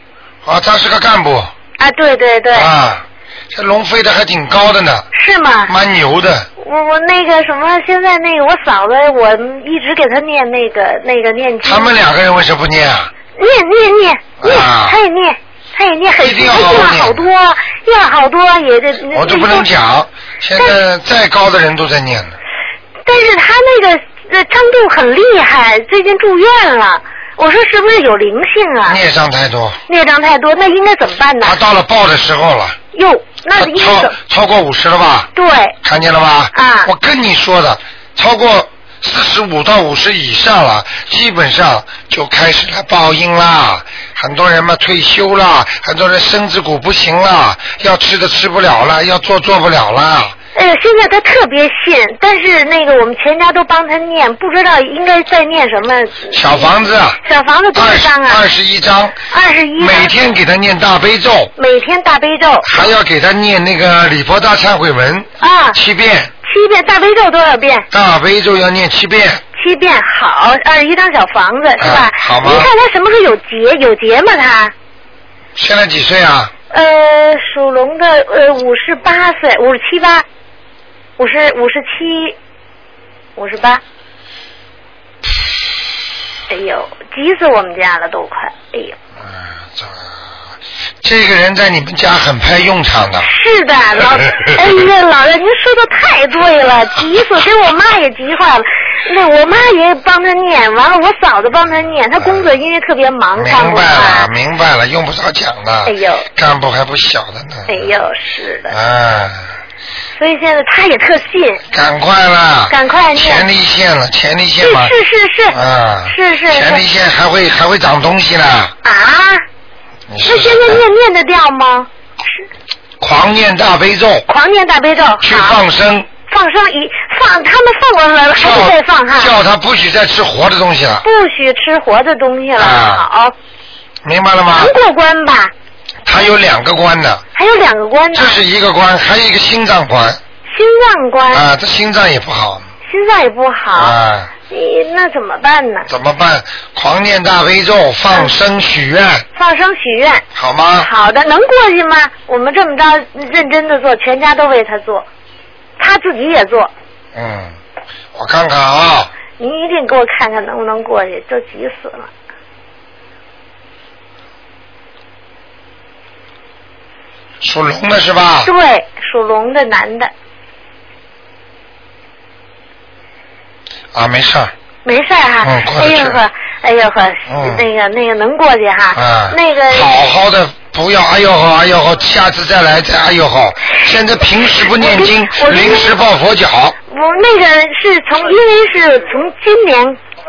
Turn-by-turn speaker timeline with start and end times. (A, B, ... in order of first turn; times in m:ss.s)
0:00.4-0:01.5 A
0:01.8-0:02.7 B
0:02.5-0:05.1 A
0:05.1-0:05.7 B
0:05.7-0:06.5 A
0:06.6-0:11.9 B
0:11.6-0:13.1 A
0:13.3-0:19.7 B
0:14.4-0:15.0 A
0:16.2-0:17.3 A
0:19.1-0:22.4 A
0:23.0-0:29.0 B
0:28.9-0:29.8 A
0:29.9-0:31.6 B
0:31.4-0:32.8 A
0:32.9-0:34.2 B
0:33.6-0:35.3 A
0:35.3-0:35.8 B
0:35.8-0:50.3 A
0:36.5-0:36.9 B
0:50.5-0:58.4 B
0:56.3-0:57.2 A
0:57.7-0:59.2 A
0:59.3-1:00.1 B
0:59.8-1:01.5 A
1:01.6-1:02.8 B
1:02.6-1:06.3 A
1:05.4-1:05.8 B
1:06.4-1:07.9 B
1:07.9-1:09.4 A
1:09.5-1:14.7 B
1:11.8-1:12.7 A
1:15.6-1:16.5 A
1:16.7-1:20.2 B
1:21.2-1:22.4 B
1:23.4-1:23.8 B
1:26.5-1:29.0 B
1:29.2-1:30.0 A
1:31.0-1:33.3 A
1:33.2-1:44.3 B
1:42.2-1:42.5 A
1:43.4-1:47.9 A
1:45.8-1:46.3 B
1:47.7-1:48.8 B
1:48.7-1:49.5 A
1:50.2-1:51.6 B
1:51.7-1:54.9 A
1:52.7-1:53.4 B
1:54.6-1:55.6 B
1:55.5-1:58.7 A
1:56.1-1:56.8 B
1:58.8-1:59.4 B
2:00.1-2:00.8 A
2:00.2-2:02.4 B
2:03.0-2:04.2 A
2:04.3-2:05.6 B
2:05.2-2:06.1 A
2:06.2-2:09.3 B
2:08.3-2:11.0 A
2:11.0-2:13.3 B
2:12.6-2:13.0 A
2:14.0-2:14.7 A
2:14.5-2:15.5 B
2:16.0-2:17.2 A
2:17.3-2:18.4 B
2:18.1-2:20.2 A
2:20.5-2:21.4 B
2:21.3-2:22.7 A
2:22.8-2:24.0 B
2:23.7-2:24.3 A
2:24.5-2:25.9 B
2:25.9-2:29.2 A
2:29.3-2:30.2 B
2:30.3-2:30.9 A
2:30.8-2:35.1 B
2:35.8-2:36.7 B
2:37.1-2:37.6 A
2:38.1-2:39.1 A
2:39.4-2:42.1 B
2:47.4-2:48.5 A
2:48.4-2:50.1 B
2:53.9-2:54.5 A
2:54.8-2:59.9 B
2:55.4-2:56.2 A
2:57.3-2:57.6 A
2:58.9-3:06.8 A
3:04.6-3:06.0 B
3:06.9-3:10.0 B